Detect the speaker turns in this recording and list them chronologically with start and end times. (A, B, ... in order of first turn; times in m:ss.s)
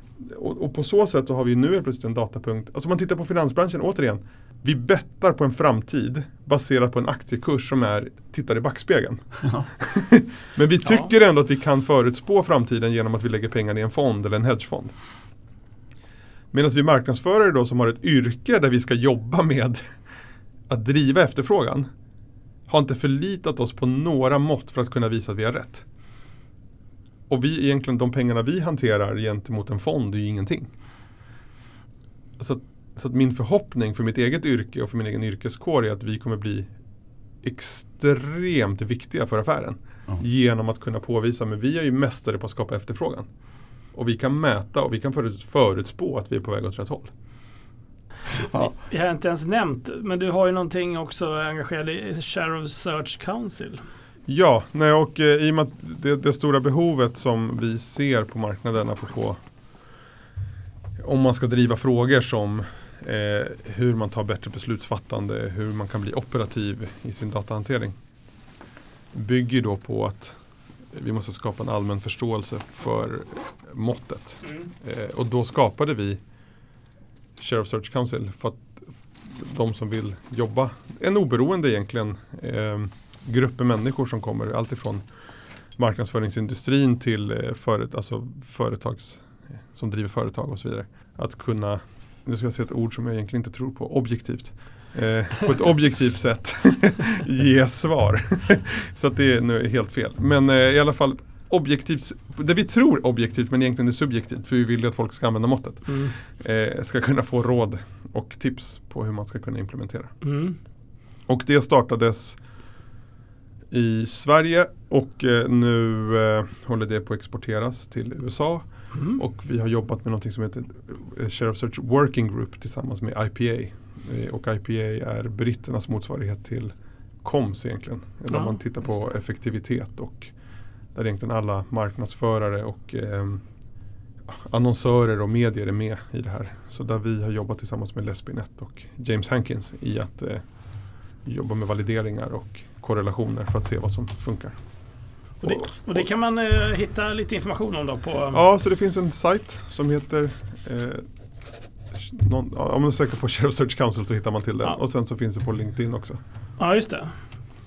0:00.2-0:15.0 A
0:16.5-0:19.8 A
0:20.7-0:21.9 A
0:22.7-0:25.8 A
0:27.3-0:30.7 A
0:32.4-0:36.7 A
0:37.4-0:43.3 A
0:43.9-0:47.1 A
0:48.5-0:53.8 B
0:54.3-0:59.4 A
1:01.0-1:08.0 A
1:09.1-1:10.4 A
1:10.9-1:16.2 A
1:17.4-1:25.1 A
1:25.8-1:50.1 A
1:45.9-1:46.2 B
1:50.2-1:50.6 B
1:51.3-1:52.4 A
1:53.7-2:10.3 A
1:58.9-1:59.2 B
2:08.3-2:08.6 B
2:10.9-2:13.4 A
2:14.3-2:20.4 A
2:21.2-2:24.6 A
2:25.4-2:28.4 B
2:28.3-2:31.1 A
2:31.9-2:36.2 A
2:36.6-2:37.2 B